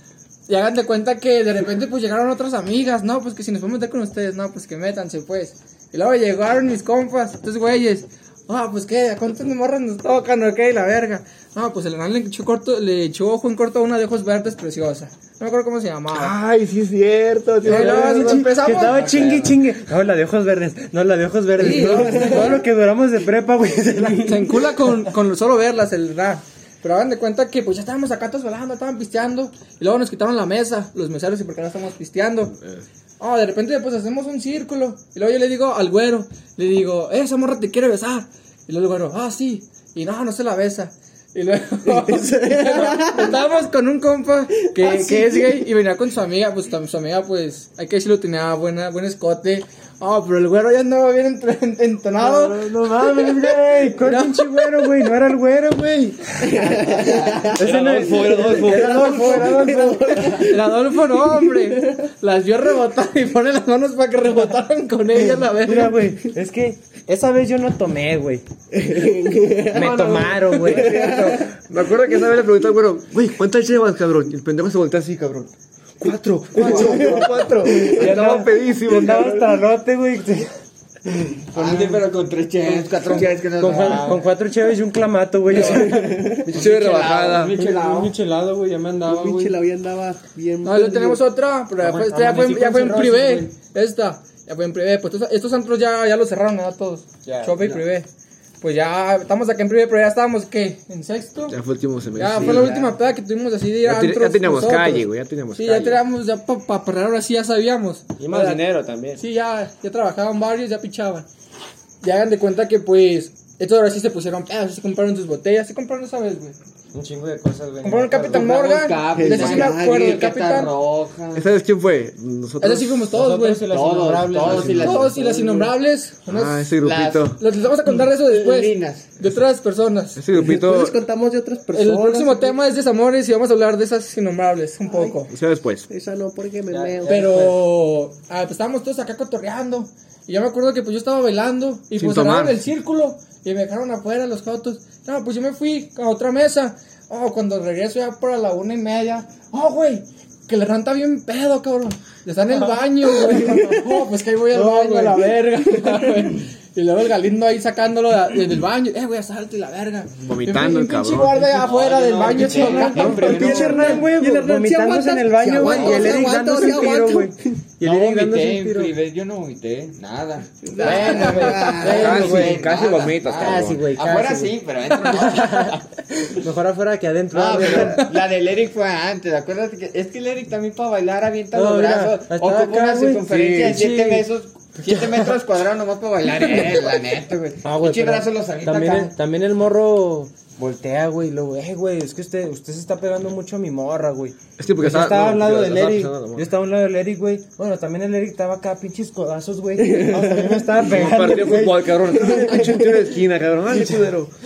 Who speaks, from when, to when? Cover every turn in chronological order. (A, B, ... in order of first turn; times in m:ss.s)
0:00.5-0:16.4 A
0:16.1-0:19.4 B
0:17.6-0:19.1 A
0:17.6-0:25.1 C
0:19.1-0:19.4 D
0:21.6-0:22.6 A
0:21.9-0:22.4 E
0:24.2-0:32.5 A
0:33.2-0:52.6 A
0:41.9-0:43.4 E
0:44.7-0:45.6 E
0:52.2-0:56.8 C
0:54.0-0:55.0 A
0:56.4-1:02.0 E
0:57.5-1:00.5 C
0:57.6-0:59.4 B
1:00.2-1:06.0 A
1:05.6-1:08.4 C
1:08.7-1:11.6 E
1:09.7-1:11.2 C
1:09.7-1:19.5 B
1:16.5-1:18.2 E
1:16.6-1:20.5 C
1:21.3-1:22.0 C
1:21.5-1:24.2 D
1:23.6-1:26.8 C
1:25.5-1:26.5 E
1:26.5-1:27.5 B
1:26.5-1:28.1 D
1:27.5-1:29.6 C
1:29.0-1:31.2 E
1:30.6-1:38.1 A
1:31.8-1:33.5 C
1:37.2-1:37.8 B
1:38.6-1:41.6 A
1:41.5-1:42.8 B
1:42.1-1:48.6 A
1:43.8-1:46.0 B
1:48.2-1:49.2 B
1:49.2-1:51.2 A
1:52.0-1:56.5 A
1:56.9-1:58.5 C
1:57.8-2:00.7 A
1:58.3-2:01.4 D
1:59.1-2:00.2 E
2:01.3-2:03.2 B
2:02.6-2:03.7 A
2:03.1-2:05.7 C
2:03.6-2:05.2 D
2:04.4-2:04.8 B
2:04.7-2:06.7 A
2:06.2-2:07.4 B
2:06.8-2:07.4 D
2:07.4-2:10.2 A
2:08.2-2:09.1 D
2:10.2-2:11.0 B
2:10.3-2:12.6 E
2:11.7-2:15.3 A
2:14.8-2:15.2 E
2:15.3-2:15.9 B
2:15.9-2:17.2 E
2:16.7-2:17.7 C
2:17.0-2:43.4 A
2:21.9-2:22.6 B
2:33.3-2:34.0 E
2:34.5-2:35.3 C
2:35.8-2:36.3 E
2:40.2-2:41.6 B
2:41.5-2:44.0 D
2:42.2-2:48.9 C
2:43.0-2:43.3 B
2:43.0-2:47.6 E
2:45.6-2:46.1 D
2:47.8-2:56.4 D
2:50.7-2:52.1 E
2:50.8-2:52.7 C
2:50.8-2:51.8 A
2:51.8-2:53.8 B
2:53.4-2:55.8 C
2:56.3-2:58.1 C
2:57.3-3:09.1 D
3:01.5-3:04.3 C
3:03.3-3:03.7 B
3:04.8-3:05.3 C
3:07.6-3:22.8 C
3:14.6-3:16.5 B
3:19.8-3:20.7 E
3:20.8-3:24.3 B
3:22.2-3:22.8 E